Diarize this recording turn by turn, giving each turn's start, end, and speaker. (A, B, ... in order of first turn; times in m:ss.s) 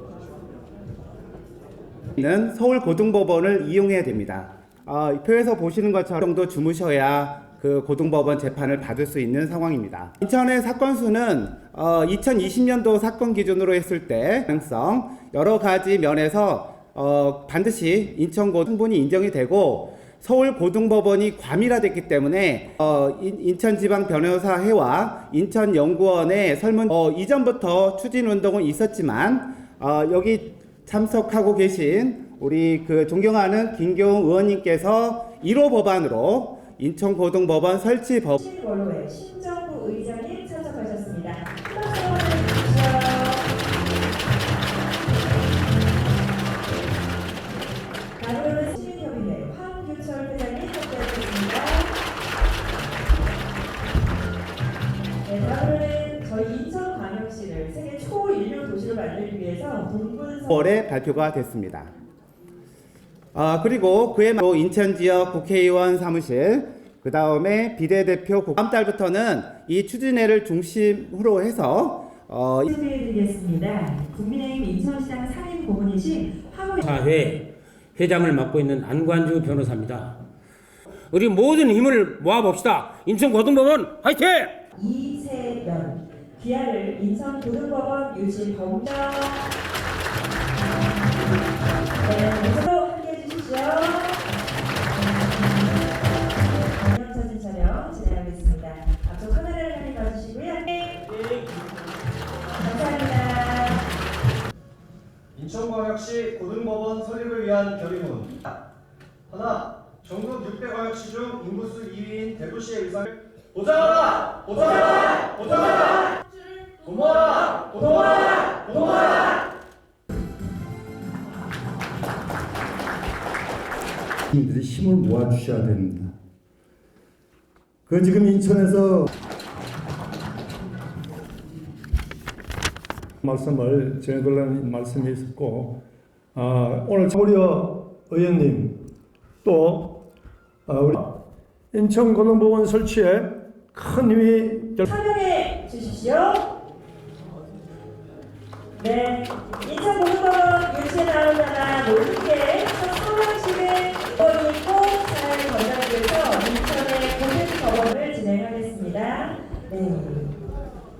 0:02.1-0:38.4 A
0:38.4-0:43.5 B
0:48.2-0:52.0 B
0:55.2-1:00.7 B
1:00.5-1:01.9 A
1:03.3-1:12.7 A
1:12.7-1:16.8 B
1:16.8-1:20.2 C
1:21.1-1:24.6 C
1:24.7-1:29.5 B
1:32.0-1:34.3 B
1:36.7-1:41.3 B
1:42.5-1:43.9 B
1:45.3-1:48.5 D
1:49.3-1:59.4 D
2:04.3-2:06.1 E
2:07.9-2:09.1 E
2:13.2-2:15.8 E
2:16.3-2:18.8 E
2:19.4-2:20.0 E
2:20.6-2:21.2 E
2:21.7-2:24.9 E
2:24.9-2:26.6 B
2:28.8-2:40.4 B